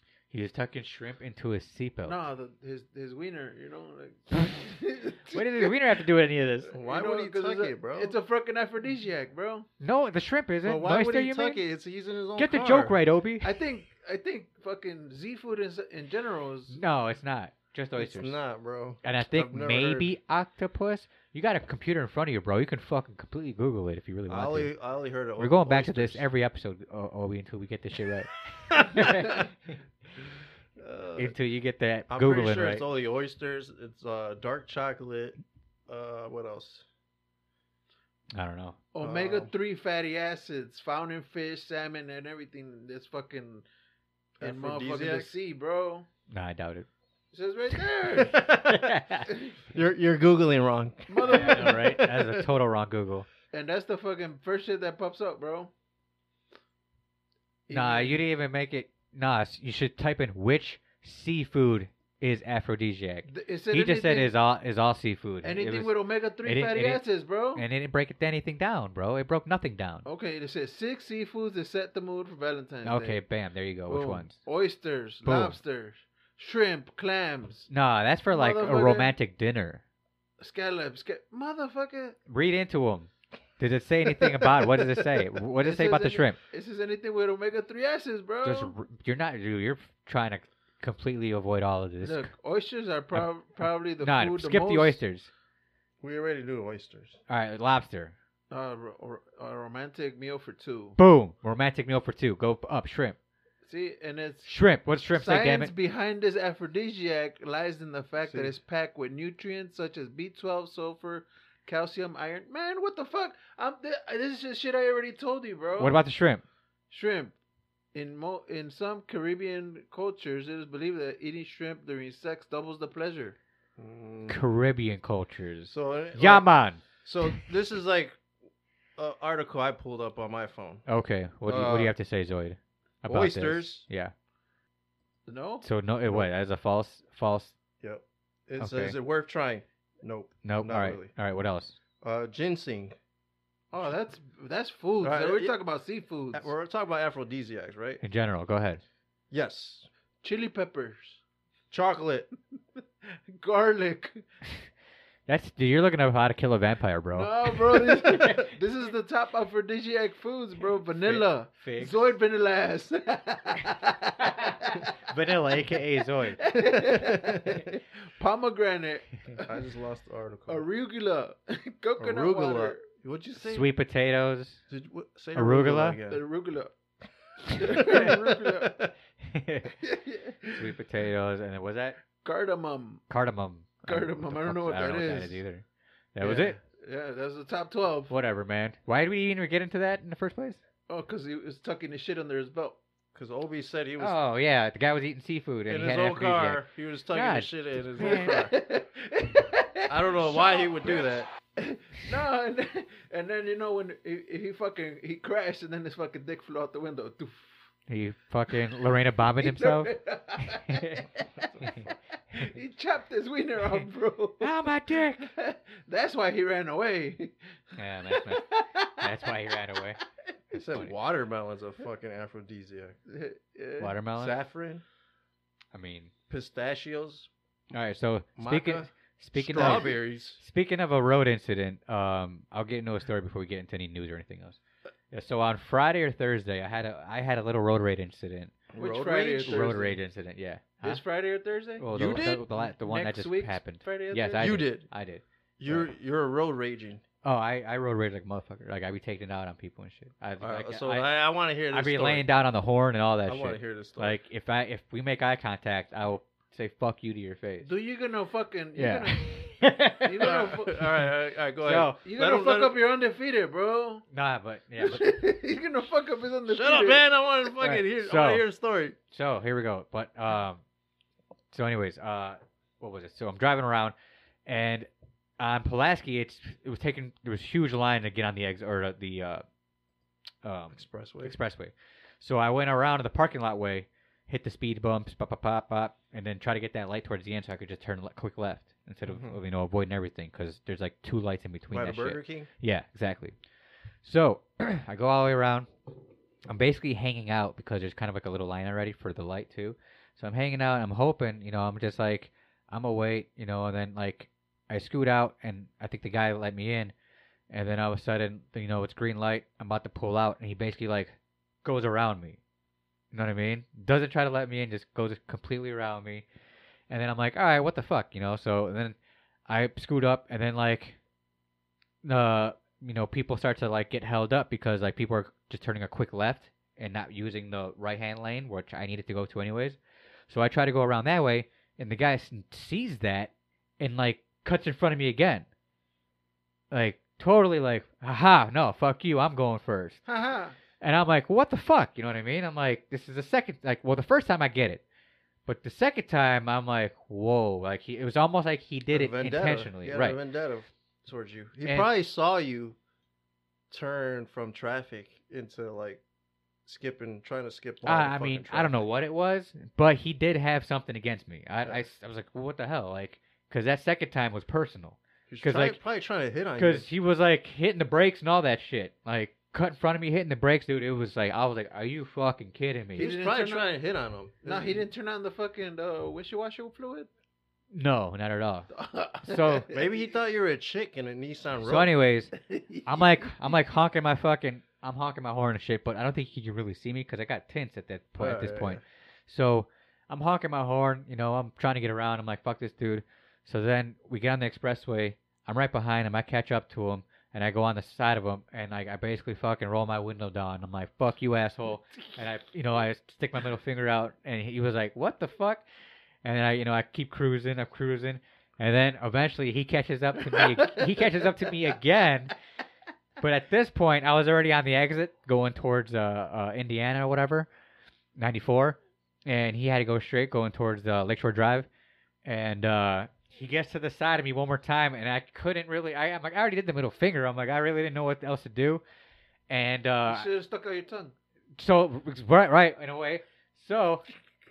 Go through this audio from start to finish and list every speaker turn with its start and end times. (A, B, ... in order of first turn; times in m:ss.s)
0:00.3-0:02.2 A
0:02.0-0:05.7 B
0:05.3-0:06.7 A
0:06.7-0:08.2 C
0:06.7-0:09.7 B
0:09.8-0:11.6 A
0:10.6-0:13.0 C
0:12.4-0:13.5 A
0:13.4-0:16.8 B
0:16.7-0:18.4 A
0:18.0-0:20.1 C
0:19.0-0:24.7 A
0:24.3-0:26.3 C
0:25.4-0:29.5 A
0:30.8-0:31.4 C
0:31.2-0:32.8 A
0:32.1-0:35.4 C
0:35.9-0:36.8 C
0:38.3-0:38.8 A
0:38.9-0:43.6 B
0:39.0-0:39.5 C
0:44.4-0:45.3 C
0:44.4-0:46.1 B
0:46.3-0:46.9 A
0:47.3-0:48.4 B
0:48.2-0:48.8 C
0:48.3-0:49.3 A
0:49.3-0:49.6 B
0:49.7-0:52.5 C
0:51.1-0:52.0 B
0:51.2-0:53.3 A
0:53.5-0:55.7 B
0:57.7-0:58.2 B
0:57.7-1:05.9 A
1:03.3-1:04.3 B
1:05.4-1:07.7 B
1:06.4-1:07.0 A
1:07.6-1:10.0 A
1:10.0-1:13.2 B
1:12.8-1:14.4 A
1:13.9-1:17.7 B
1:15.2-1:15.6 A
1:17.7-1:19.8 A
1:18.3-1:19.1 B
1:20.4-1:22.2 B
1:22.3-1:26.4 A
1:25.6-1:28.7 B
1:28.4-1:32.3 A
1:32.0-1:35.0 B
1:34.0-1:35.3 A
1:36.0-1:37.2 C
1:37.3-1:38.2 A
1:38.5-1:41.0 B
1:41.0-1:43.2 A
1:43.7-1:44.5 B
1:44.5-1:45.7 A
1:45.1-1:56.0 B
1:55.8-1:56.4 A
1:56.9-1:57.4 B
1:57.9-2:03.4 B
2:03.8-2:04.4 C
2:04.3-2:07.3 A
2:05.7-2:06.5 C
2:07.0-2:08.2 C
2:09.0-2:10.8 C
2:10.9-2:14.1 A
2:11.5-2:12.0 C
2:13.1-2:13.9 C
2:15.3-2:15.6 B
2:15.6-2:17.6 A
2:17.8-2:21.1 C
2:18.6-2:19.0 A
2:20.4-2:21.8 A
2:22.0-2:23.0 C
2:23.7-2:26.5 B
2:25.0-2:25.5 C
2:26.3-2:28.0 C
2:28.0-2:28.8 A
2:29.3-2:29.9 C
2:30.2-2:31.2 B
2:31.7-2:32.3 C
2:33.0-2:34.2 B
2:35.3-2:37.4 A
2:37.2-2:44.8 B
2:38.0-2:38.5 A
2:41.0-2:42.0 A
2:44.2-2:46.4 A
2:46.4-2:49.7 B
2:46.6-2:47.7 C
2:49.4-2:50.6 C
2:50.5-2:52.8 B
2:52.0-2:53.7 C
2:53.4-2:54.6 A
2:54.7-2:56.2 C
2:55.4-2:56.0 A
2:56.1-2:56.7 B
2:57.5-2:58.9 B
2:57.6-2:58.1 A
2:57.6-2:58.7 C
2:59.2-2:59.8 A
2:59.8-3:00.6 B
3:00.5-3:02.0 A
3:02.2-3:03.0 B
3:03.1-3:05.6 A
3:03.9-3:05.4 B
3:06.2-3:06.6 A
3:06.2-3:08.1 B
3:08.1-3:10.6 A
3:10.9-3:12.8 B
3:13.2-3:14.2 C
3:14.0-3:18.5 A
3:15.7-3:18.6 C
3:18.0-3:27.6 B
3:19.9-3:21.3 C
3:27.9-3:31.1 A
3:29.4-3:31.0 B
3:32.3-3:34.6 B
3:34.4-3:35.3 A
3:35.2-3:37.4 B
3:37.8-3:40.0 A
3:38.1-3:39.5 B
3:40.5-3:43.0 C
3:43.1-3:44.0 B
3:43.8-3:44.4 A
3:44.2-3:44.8 C
3:45.7-3:46.1 A
3:46.3-3:47.3 C
3:47.7-3:54.6 A
3:48.4-3:50.4 C
3:55.1-3:58.5 A
3:58.7-3:59.7 C
3:58.8-4:00.0 B
3:59.5-4:01.0 A
4:00.8-4:04.5 B
4:01.8-4:05.9 A
4:01.9-4:02.5 C
4:04.3-4:04.9 C
4:05.6-4:07.0 C
4:07.2-4:11.1 A
4:10.4-4:12.3 C
4:11.7-4:17.7 A
4:13.3-4:14.2 C
4:17.6-4:19.4 B
4:18.8-4:20.3 A
4:20.0-4:20.9 B
4:20.2-4:22.8 C
4:21.6-4:22.0 A
4:22.0-4:24.0 B
4:24.1-4:25.1 A
4:24.8-4:27.1 B
4:26.5-4:29.0 C
4:27.6-4:28.4 A
4:29.1-4:30.6 A
4:31.5-4:34.0 A
4:34.5-4:34.9 A
4:35.4-4:39.4 A
4:40.4-4:53.4 A
4:40.7-4:41.4 C
4:49.0-4:49.4 C
4:51.7-4:52.5 C
4:54.0-4:55.7 A
4:56.5-5:06.9 A
5:07.5-5:12.4 A
5:13.1-5:16.2 A
5:16.9-5:19.0 A
5:19.5-5:21.0 A
5:22.0-5:35.5 A
5:36.7-5:40.0 A
5:40.1-5:40.5 B
5:40.8-5:44.8 A
5:45.5-5:50.2 A
5:48.9-5:52.8 C
5:53.7-5:56.0 C
5:56.7-5:58.8 C
5:57.8-6:05.8 A
6:05.3-6:06.9 C
6:06.6-6:13.1 A
6:13.0-6:14.8 C
6:13.0-6:13.7 B
6:14.4-6:17.1 B
6:17.7-6:18.7 A
6:18.7-6:19.9 B
6:19.2-6:19.7 A
6:19.7-6:21.9 C
6:21.6-6:22.3 A
6:22.3-6:23.6 B
6:22.8-6:45.6 A
6:28.2-6:28.8 C
6:46.2-6:52.3 A
6:50.3-6:50.9 B
6:53.2-6:57.5 A
6:58.2-7:01.7 A
7:02.2-7:08.8 A
7:09.5-7:10.3 A
7:10.0-7:11.1 B
7:11.6-7:14.0 A